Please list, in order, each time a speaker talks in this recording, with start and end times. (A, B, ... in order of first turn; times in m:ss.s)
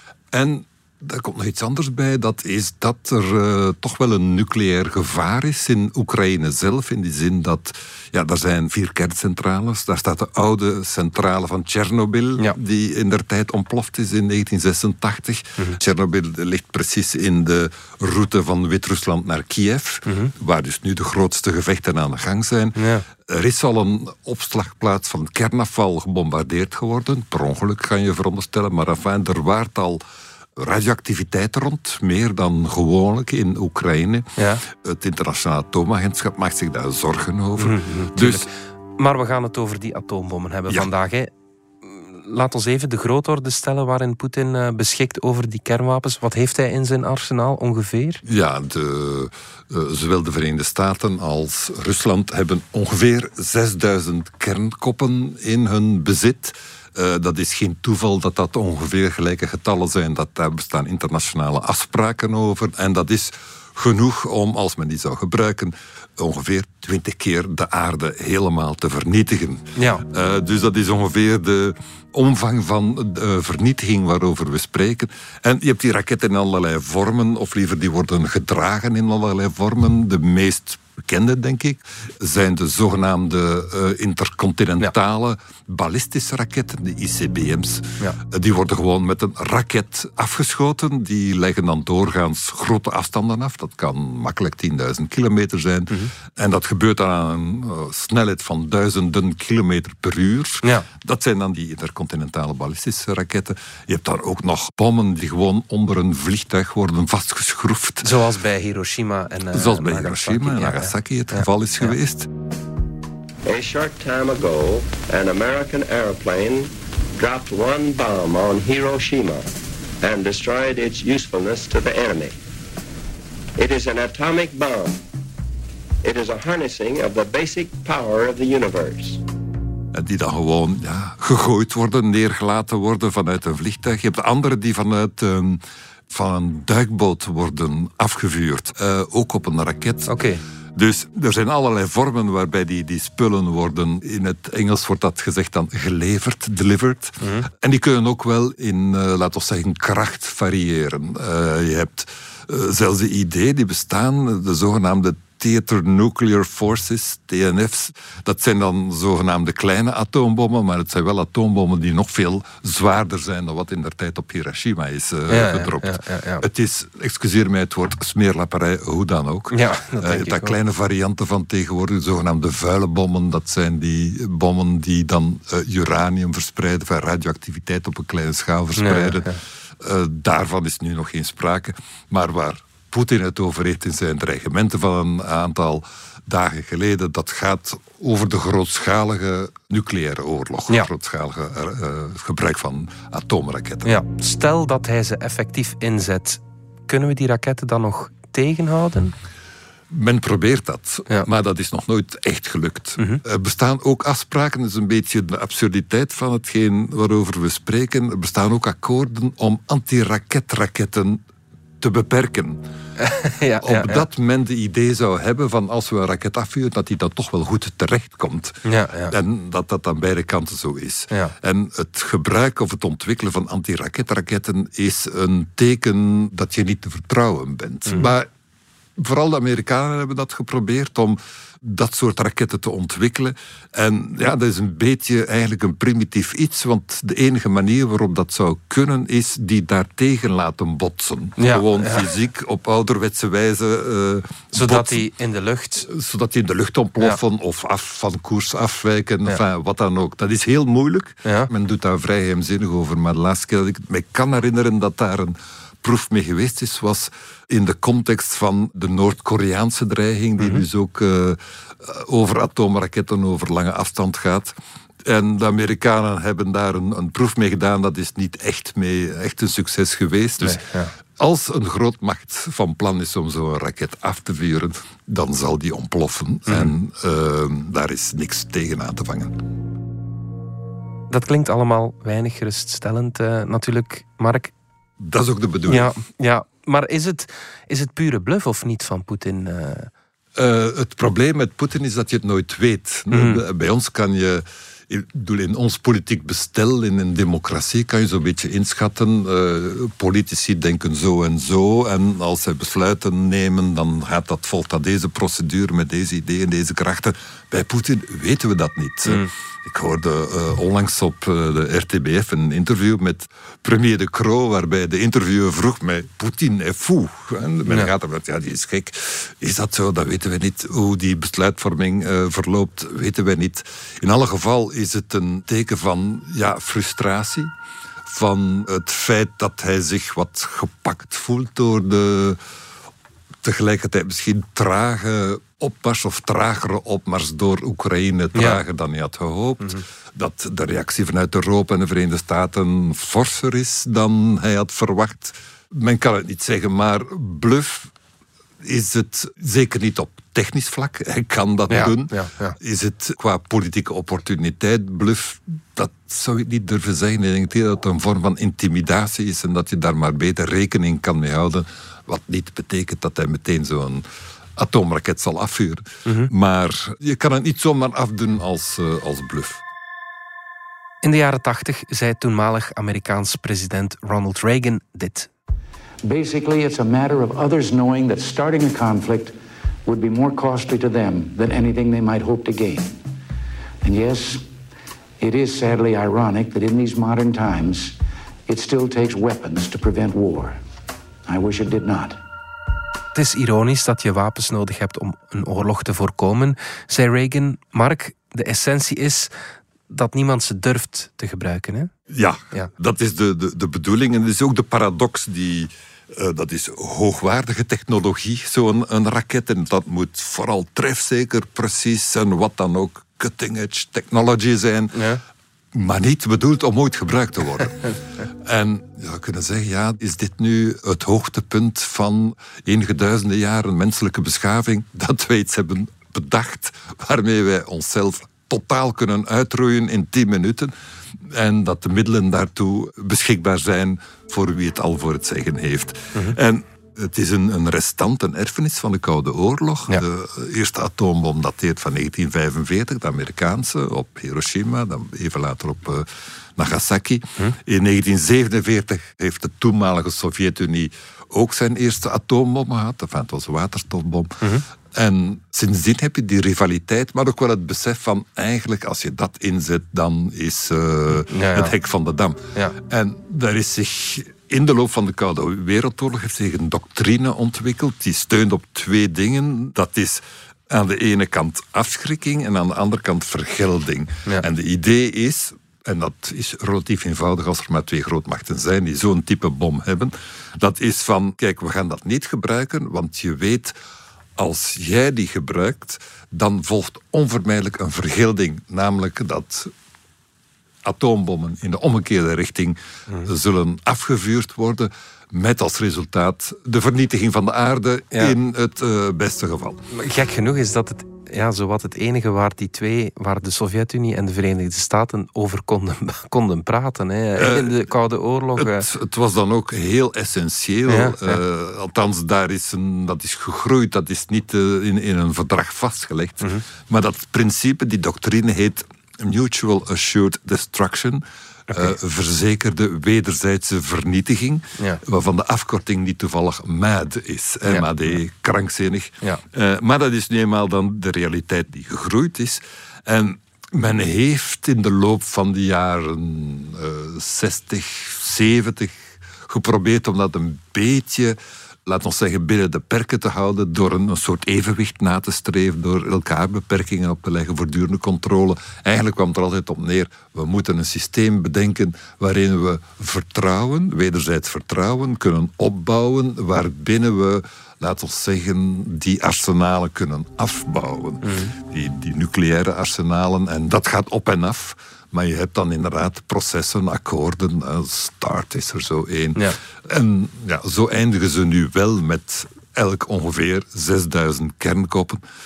0:00.3-0:30.0 A
0:20.1-0:20.3 B
0:22.8-0:23.1 B
0:30.6-0:38.5 A
0:34.4-0:34.6 B
0:37.6-0:41.3 B
0:41.8-0:48.2 B
0:48.2-1:48.2 A
1:09.8-1:10.0 B
1:48.0-1:51.9 B
1:49.5-1:52.3 A
1:53.4-1:59.5 C
2:00.0-2:02.4 C
2:03.6-2:05.0 C
2:06.0-2:09.2 C
2:09.9-2:20.1 A
2:20.1-2:20.4 B
2:20.8-3:14.0 A
2:27.2-2:27.5 B
2:45.3-2:46.4 B
2:49.5-2:50.6 B
2:58.8-2:59.4 B
3:13.8-3:19.2 B
3:19.9-3:31.2 A
3:31.8-3:32.6 A
3:33.0-3:34.0 B
3:33.6-3:48.3 A
3:38.6-3:39.2 B
3:49.0-4:05.1 A
4:01.4-4:02.1 B
4:04.5-4:05.9 B
4:05.8-4:30.6 A
4:30.4-4:30.9 B
4:31.2-4:39.4 A
4:41.1-4:44.5 B
4:45.0-4:45.9 A
4:45.7-4:49.9 B
4:50.4-5:27.5 A
4:53.1-4:53.4 B
5:28.1-5:32.4 A
5:33.4-5:47.9 A
5:38.4-5:38.6 B
5:48.6-6:04.0 A
5:51.7-5:52.6 B
6:04.6-6:09.6 A
6:11.0-6:15.3 B
6:16.0-6:19.3 D
6:19.8-6:23.0 D
6:23.8-6:24.4 D
6:25.2-6:28.0 D
6:28.5-6:30.6 D
6:31.3-6:32.2 D
6:33.1-6:39.3 B
6:39.9-6:41.9 B
6:42.1-6:55.1 A
6:55.0-6:55.2 B
6:55.7-8:03.8 A
7:41.2-7:41.7 B
8:04.4-8:09.7 A
8:10.8-8:19.8 A
8:19.9-8:28.9 B
8:27.4-8:27.8 A
8:28.6-9:35.2 A
8:30.9-8:31.4 B
8:47.7-8:48.2 B
9:21.2-9:21.5 B